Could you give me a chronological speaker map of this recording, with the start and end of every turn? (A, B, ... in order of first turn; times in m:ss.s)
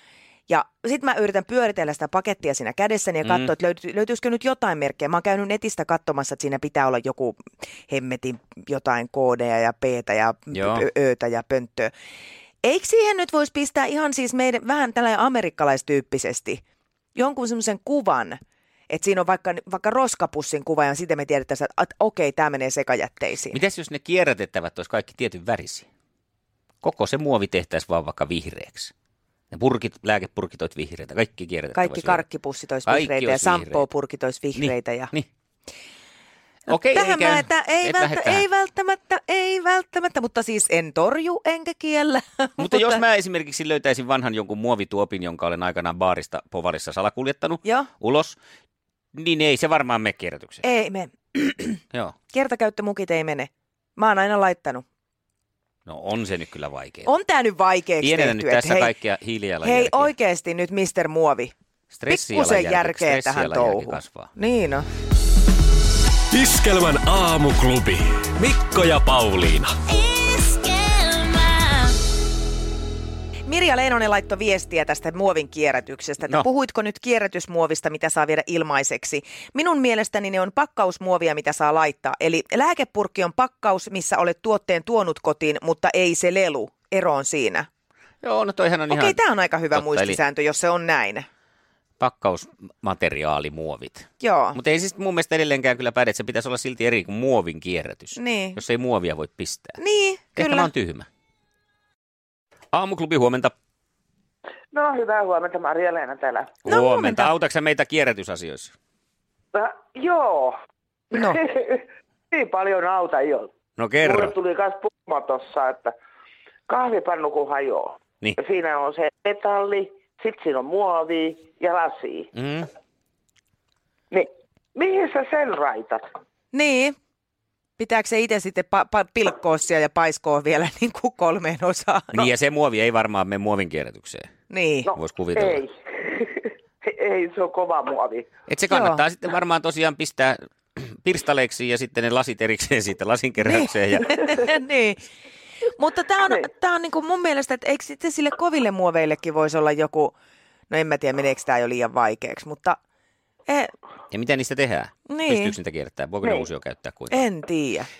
0:00.5-0:11.9 A
0:03.2-0:03.5 B
0:10.5-0:10.9 B
0:12.6-0:16.6 A
0:17.1-0:18.4 A
0:18.9-0:23.6 A
0:23.5-0:25.9 B
0:26.8-0:28.9 B
0:29.5-0:32.2 B
0:31.8-0:35.1 A
0:32.9-0:33.9 B
0:34.6-0:35.3 B
0:36.7-0:38.4 B
0:36.7-0:43.0 A
0:42.6-0:48.4 B
0:47.6-0:47.9 A
0:49.1-0:50.6 B
0:50.6-0:54.8 A
0:55.9-0:57.1 B
0:57.0-0:58.9 A
0:58.0-1:00.1 B
0:59.6-1:01.5 A
1:01.9-1:04.3 B
1:02.1-1:04.9 A
1:06.3-1:09.8 C
1:09.9-1:12.0 D
1:13.5-1:27.7 A
1:28.2-1:29.2 B
1:28.9-1:31.3 A
1:29.7-1:30.2 B
1:32.0-1:39.8 B
1:34.2-1:34.6 A
1:38.2-1:38.6 A
1:39.8-1:40.7 A
1:40.4-1:41.1 B
1:42.7-1:43.5 B
1:44.7-1:46.6 E
1:46.6-1:48.8 B
1:46.6-1:47.3 A
1:49.5-1:50.6 E
1:51.1-1:56.0 E
1:51.1-1:51.4 A
1:53.8-1:54.3 B
1:56.7-2:02.3 E
2:02.4-2:02.7 B
2:04.1-2:06.0 E
2:06.5-2:07.0 A
2:07.8-2:12.3 A
2:12.1-2:14.3 B
2:14.5-2:14.9 A
2:14.9-2:18.3 E
2:14.9-2:15.6 B
2:18.5-2:24.4 B
2:18.7-2:19.0 A
2:23.4-2:25.0 A
2:25.8-2:30.1 A
2:30.7-2:32.8 A
2:34.1-2:37.2 B
2:35.1-2:35.6 A
2:36.2-2:36.5 E
2:37.1-2:37.9 A